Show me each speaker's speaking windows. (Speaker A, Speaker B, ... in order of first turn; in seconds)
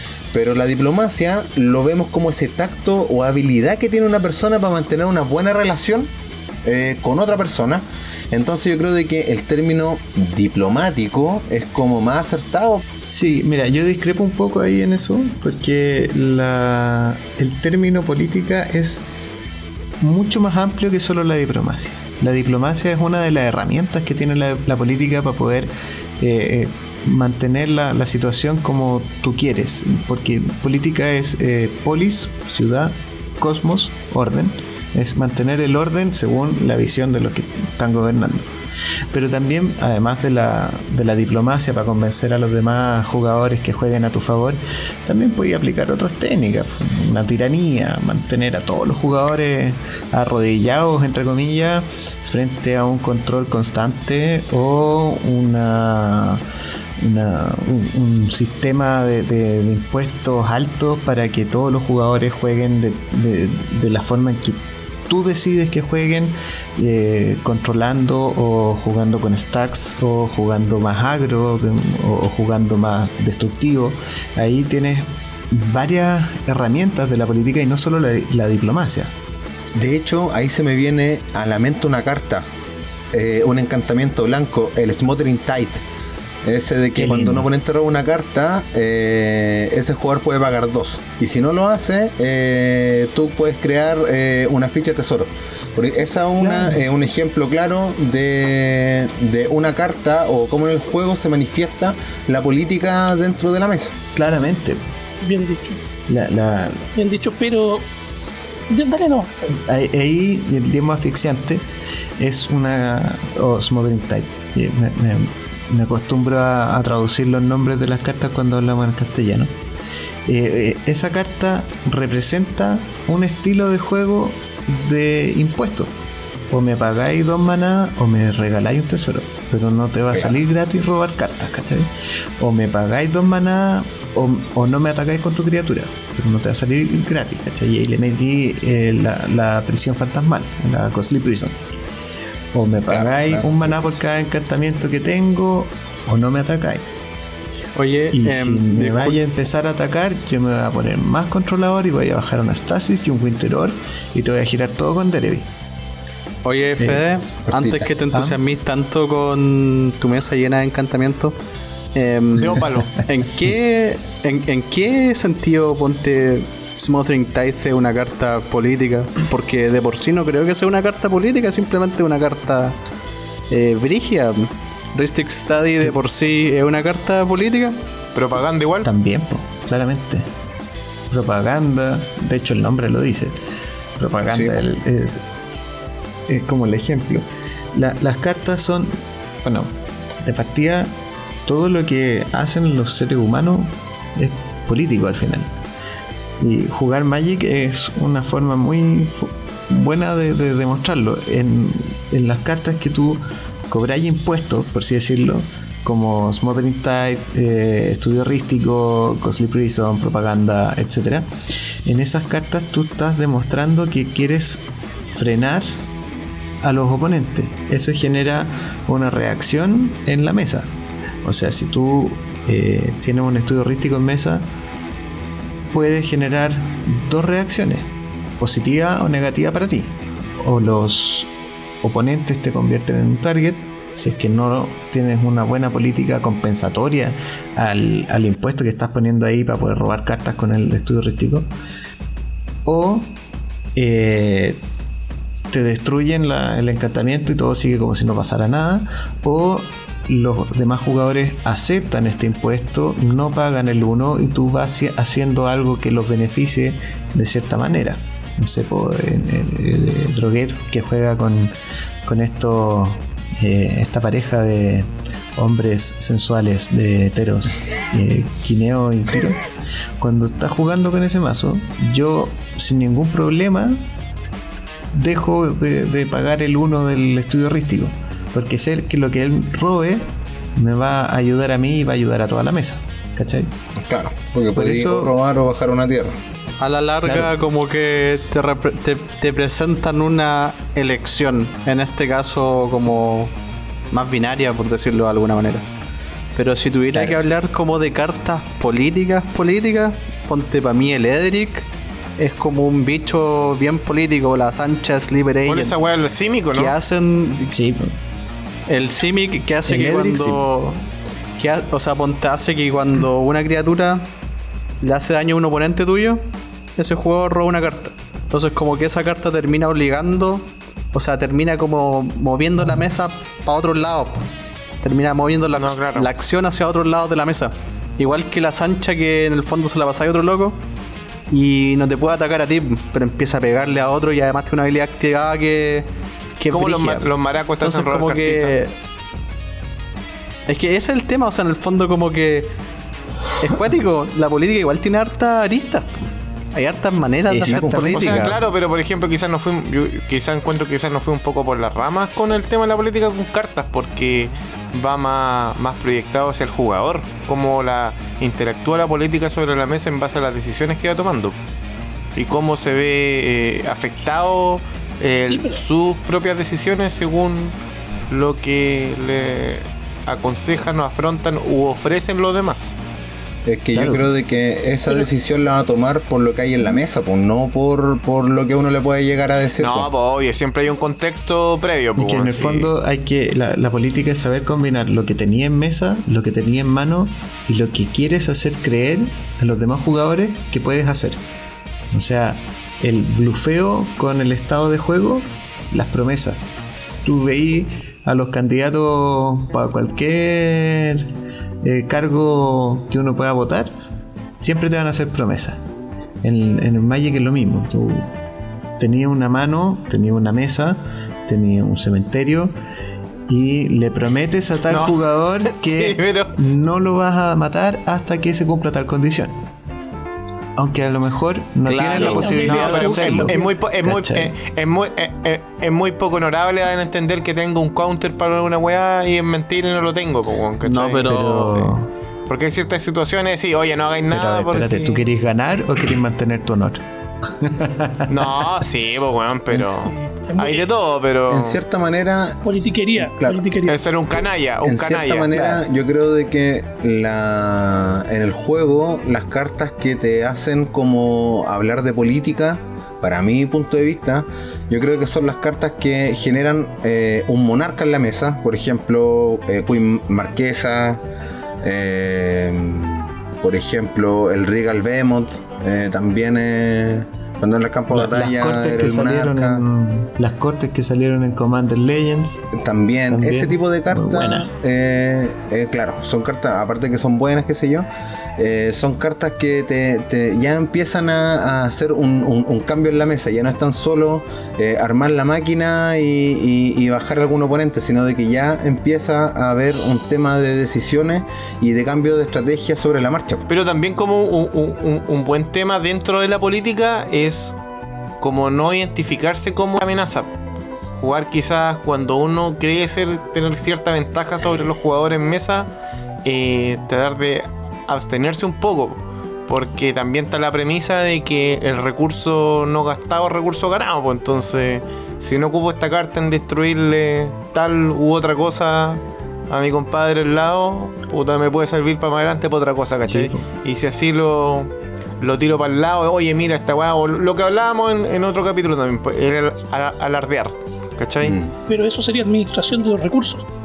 Speaker A: 0.3-6.1, 6.6-12.8, 79.8-82.5, 83.1-85.8, 86.4-103.9, 142.9-144.0, 157.5-157.9, 184.3-184.6, 283.8-286.2, 347.4-348.4, 373.4-379.9, 441.3-442.4, 443.0-443.4, 444.6-461.0, 461.6-469.6, 472.5-493.4, 531.2-531.5
Speaker B: 13.0-19.0, 20.0-38.5, 39.1-56.4, 57.0-79.1, 86.9-87.5, 96.4-96.8, 104.1-104.8, 106.1-106.9, 109.5-111.6, 112.2-119.5, 120.2-125.9, 126.5-141.6, 142.5-146.8, 148.1-155.5, 156.8-157.0, 158.1-158.4, 178.8-180.3, 181.1-183.4, 184.0-185.2, 186.3-188.9, 189.4-189.7, 190.2-190.9, 191.4-195.5, 196.4-211.3, 211.8-215.7, 216.6-220.7, 221.2-224.4, 225.7-231.3, 231.8-241.5, 242.6-243.1, 243.7-244.6, 245.5-269.4, 270.0-273.9, 274.9-280.0, 280.5-283.5, 284.5-285.1, 287.0-287.3, 296.9-297.2, 307.4-307.9, 309.6-310.5, 347.3-348.3, 373.7-374.1, 381.9-391.2, 391.9-396.4, 397.0-403.7, 404.4-405.6, 406.2-408.1, 408.8-412.5, 413.3-419.3, 420.6-424.3, 431.0-431.9, 434.1-436.8, 437.4-438.2, 445.3-445.6, 467.9-472.5, 473.1-474.5, 523.1-523.4
Speaker C: 105.2-105.8, 106.9-107.8, 108.7-109.5, 365.2-365.6, 422.0-423.5, 439.5-440.6, 442.4-443.8, 531.7-533.5
Speaker D: 147.8-149.2, 156.4-161.3, 161.9-172.7, 173.5-177.8, 286.6-293.3, 293.9-295.6, 296.3-301.7, 302.2-305.8, 306.5-307.5, 308.7-310.8, 311.4-314.0, 314.8-316.2, 316.8-324.2, 324.8-330.6, 331.3-335.9, 336.4-337.1, 337.6-338.7, 340.5-342.5, 343.4-348.3, 421.6-423.3, 430.6-431.6
Speaker E: 162.4-163.1, 178.1-178.9, 305.4-306.8, 325.5-326.1, 336.5-338.6, 347.7-361.4, 362.1-367.5, 368.1-372.8, 379.6-382.7, 414.7-416.3, 422.0-431.7, 432.3-435.0, 438.1-441.6, 443.6-445.3, 493.5-497.6, 498.2-500.3, 501.0-505.7, 506.2-531.4